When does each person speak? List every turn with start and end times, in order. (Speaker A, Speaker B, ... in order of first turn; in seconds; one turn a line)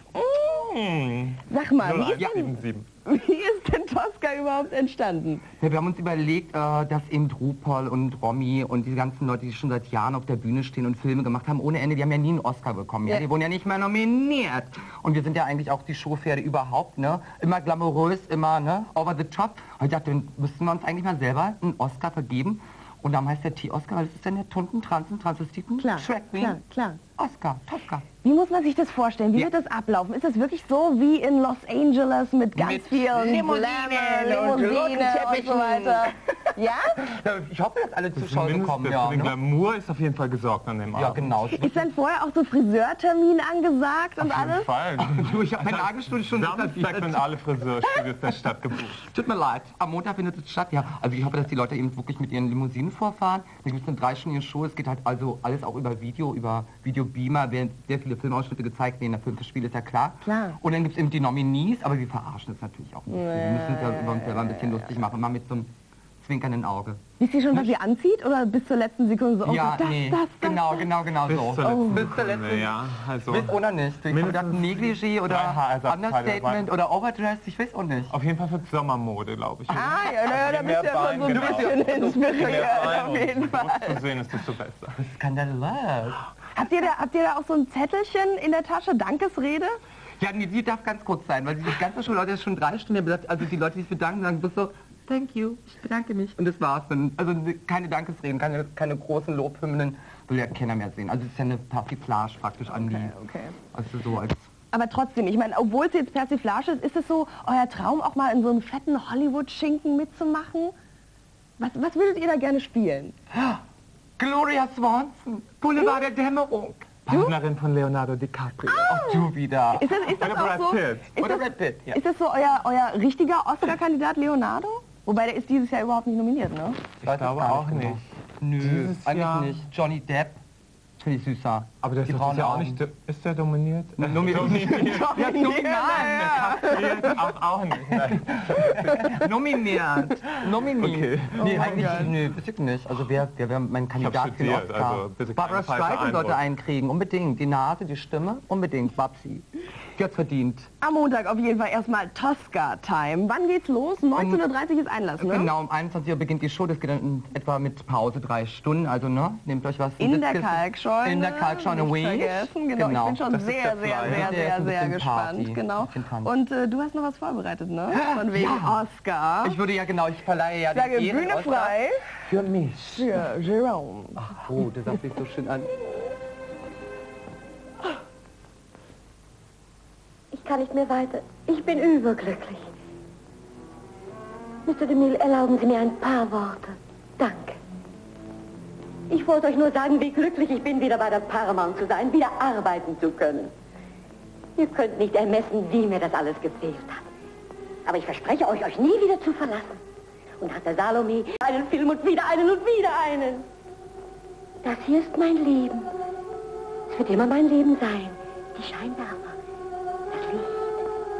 Speaker A: 0.4-2.9
Speaker B: 1.5-5.4
Speaker C: 5.6-26.6
Speaker B: 25.8-27.0
Speaker C: 27.2-28.1
Speaker B: 28.2-37.0
Speaker C: 32.5-36.4
Speaker C: 36.9-39.3
Speaker A: 38.1-41.5
Speaker C: 40.9-41.8
Speaker B: 41.5-44.7
Speaker A: 44.2-49.0
Speaker C: 45.0-47.2
Speaker C: 49.0-67.7
Speaker B: 60.2-60.6
Speaker B: 63.1-64.9
Speaker B: 67.2-70.9
Speaker C: 69.4-78.1
Speaker A: 71.3-76.7
Speaker B: 71.6-72.1
Speaker A: 78.1-85.0
Speaker B: 79.7-84.0
Speaker C: 81.2-83.1
Speaker C: 85.0-86.2
Speaker B: 86.5-89.8
Speaker C: 90.2-103.1
Speaker B: 102.7-103.5
Speaker C: 103.7-104.5
Speaker B: 104.7-110.7
Speaker B: 111.6-113.1
Speaker C: 113.3-113.6
Speaker C: 114.2-117.3
Speaker B: 117.1-117.3
Speaker A: 117.1-118.8
Speaker C: 118.6-119.9
Speaker B: 118.7-126.8
Speaker A: 120.1-121.1
Speaker C: 121.2-122.0
Speaker A: 127.0-128.0
Speaker C: 127.0-130.4
Speaker A: 128.6-129.6
Speaker C: 131.0-132.8
Speaker A: 131.8-135.2
Speaker C: 134.0-137.2
Speaker B: 134.6-137.2
Speaker A: 136.1-139.1
Speaker C: 137.9-150.7
Speaker B: 138.7-139.0
Speaker A: 140.5-142.1
Speaker B: 141.4-142.1
Speaker A: 143.9-146.4
Speaker B: 150.8-155.5
Speaker C: 154.2-154.4
Speaker C: 155.2-163.2
Speaker B: 160.0-169.6
Speaker A: 163.3-164.4
Speaker C: 164.0-166.3
Speaker C: 167.9-168.8
Speaker C: 169.4-173.1
Speaker B: 170.7-172.0
Speaker B: 172.9-174.2
Speaker C: 174.2-175.8
Speaker D: 180.3-182.6
Speaker D: 184.7-187.6
Speaker D: 189.1-193.5
Speaker D: 194.6-197.1
Speaker D: 197.8-199.8
Speaker D: 200.4-203.4
Speaker D: 204.6-205.9
Speaker D: 206.9-209.4
Speaker D: 210.1-210.8